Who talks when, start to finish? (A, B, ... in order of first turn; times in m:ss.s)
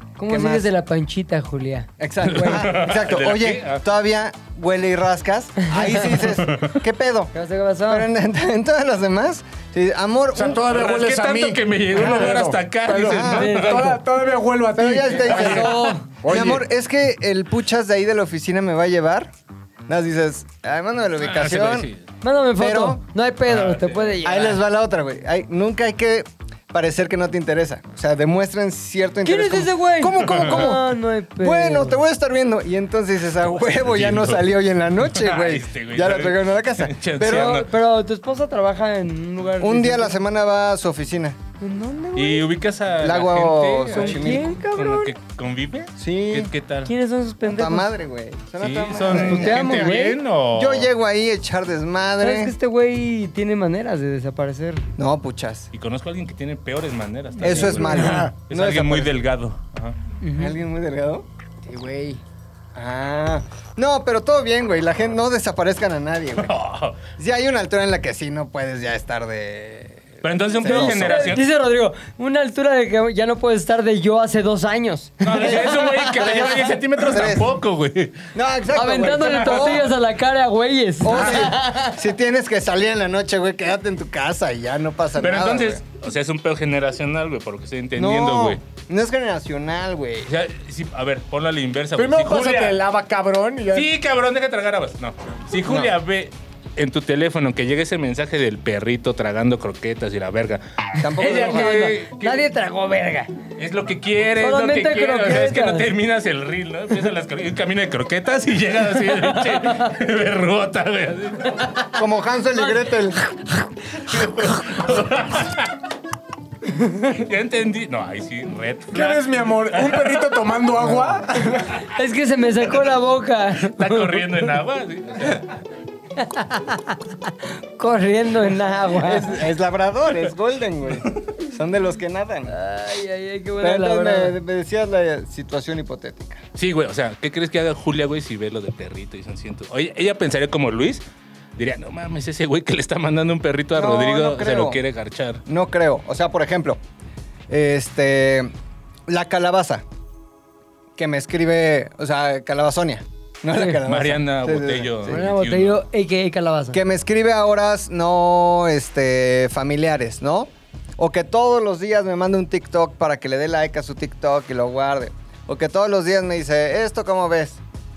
0:00.2-0:02.6 A
0:00.3-0:00.7 B
0:02.0-0:07.3 B
0:02.2-0:03.8 C
0:07.3-0:08.1 A
0:07.9-0:10.6 B
0:10.3-0:16.6 D
0:10.6-0:13.9 C
0:13.0-0:13.5 B
0:13.3-0:14.0 A
0:14.8-0:19.3 B
0:15.2-0:16.1 A
0:19.9-0:21.9 B
0:21.2-0:22.0 C
0:22.2-0:24.6 A
0:22.6-0:23.0 B
0:23.5-0:24.2 C
0:24.2-0:37.6 B
0:29.2-0:32.0 A
0:30.2-0:30.5 C
0:33.4-0:37.7 C
0:37.2-0:40.2 A
0:39.6-0:41.4 B
0:41.6-0:42.5 A
0:42.2-0:46.9 C
0:43.0-0:44.5 B
0:43.9-0:45.2 A
0:46.0-0:46.5 B
0:46.8-0:47.9 A
0:47.4-0:52.5 B
0:48.6-0:50.9 C
0:49.1-0:50.1 A
0:52.2-0:54.9 A
0:55.0-0:55.7 B
0:55.7-1:00.0 C
0:57.4-0:58.0 A
0:57.4-0:59.1 B
0:57.9-0:58.3 D
1:00.2-1:00.6 A
1:00.4-1:01.2 B
1:01.6-1:02.2 A
1:02.7-1:06.5 B
1:06.4-1:07.0 C
1:07.2-1:11.3 B
1:10.2-1:11.4 C
1:10.6-1:16.4 A
1:15.2-1:18.2 C
1:16.1-1:17.5 B
1:18.3-1:19.9 B
1:18.7-1:22.0 A
1:19.1-1:19.9 C
1:21.0-1:25.8 B
1:21.1-1:21.5 C
1:25.2-1:28.6 C
1:28.0-1:30.3 B
1:30.3-1:32.8 C
1:32.0-1:33.9 D
1:33.7-1:42.4 C
1:35.6-1:35.9 B
1:41.0-1:41.8 B
1:41.2-1:43.3 A
1:43.6-1:51.7 C
1:44.4-1:45.9 A
1:49.1-1:49.9 A
1:52.0-1:53.2 B
1:53.3-1:54.8 A
1:54.1-1:55.7 C
1:56.8-1:57.1 A
1:57.1-2:00.3 C
1:58.9-2:01.8 D
2:01.7-2:04.4 A
2:03.6-2:05.6 C
2:06.2-2:09.3 A
2:09.0-2:12.5 B
2:12.5-2:14.4 A
2:13.6-2:16.4 B
2:16.6-2:21.0 C
2:21.6-2:25.4 C
2:23.7-2:24.8 B
2:25.5-2:26.8 B
2:27.5-2:28.5 B
2:29.1-2:29.8 B
2:31.0-2:35.2 B
2:33.5-2:33.8 A
2:33.8-2:35.8 C
2:35.0-2:36.8 A
2:36.7-2:47.6 B